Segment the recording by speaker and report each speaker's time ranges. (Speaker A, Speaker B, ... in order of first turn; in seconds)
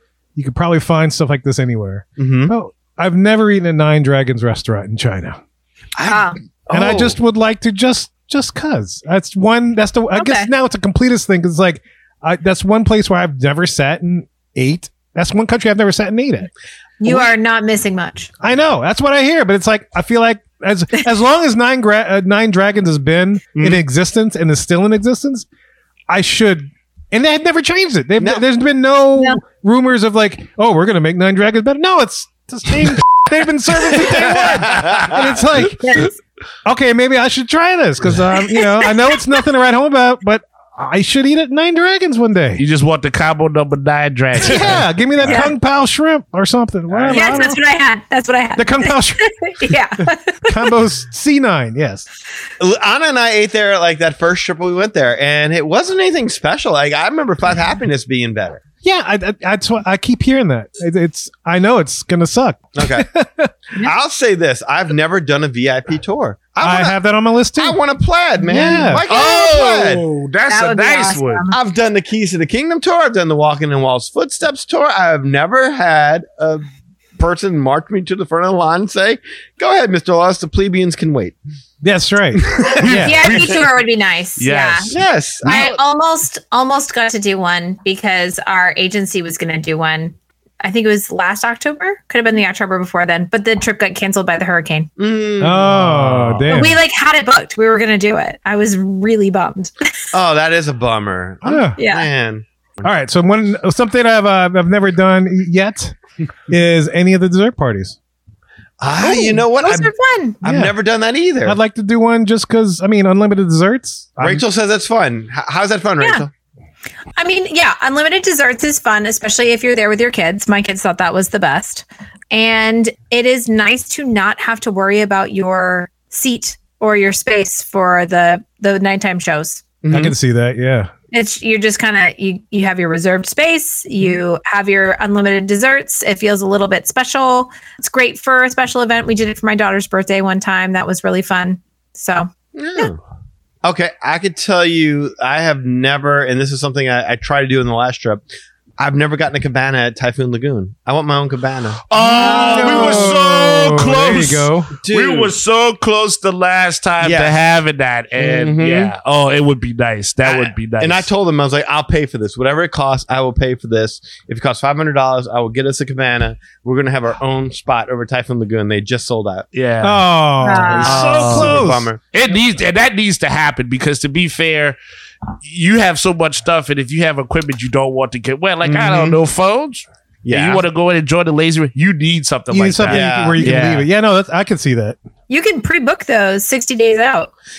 Speaker A: 0.3-5.4, 6.7-16.5, 18.4-25.4, 26.1-36.1, 36.6-42.6, 44.4-47.6, 48.6-49.8, 50.5-52.0, 58.8-63.5, 66.6-67.8, 68.5-69.0, 81.8-83.2, 95.4-96.8, 101.4-101.8, 102.8-106.0, 106.5-108.0, 110.4-110.7, 111.4-114.4, 129.9-130.9, 151.9-154.7, 169.8-171.9, 182.5-185.0
Speaker B: 2.2-2.5, 6.0-7.2, 17.0-17.3, 23.5-23.8, 28.2-28.4, 34.0-35.6, 44.6-45.4, 46.9-47.3, 52.6-58.6, 62.8-63.1, 63.8-67.0, 67.5-70.0, 71.5-76.6, 77.2-81.3, 82.5-83.0, 84.9-85.8, 95.0-96.7, 100.1-102.9, 108.8-111.6, 114.2-116.3, 129.8-130.1, 142.5-143.0, 143.6-148.2, 148.8-153.2, 154.8-155.3, 157.0-157.3, 158.2-158.9, 160.2-169.4, 170.8-172.0, 178.6-179.2, 180.2-180.6, 182.8-183.6
Speaker C: 6.0-6.4, 10.1-10.5, 17.0-18.3, 35.8-36.1, 38.4-39.0, 45.2-45.5, 47.1-50.7, 68.5-68.8, 70.5-71.6, 82.9-84.9, 85.4-94.9, 96.5-99.7, 101.8-102.1, 109.0-110.4, 117.2-129.6, 131.1-142.9, 170.4-171.1, 185.3-187.3
Speaker D: 34.7-35.1, 42.6-45.3, 69.1-71.4, 82.8-83.7, 84.4-85.0, 151.9-161.1, 169.5-170.1, 170.9-174.8, 175.4-183.8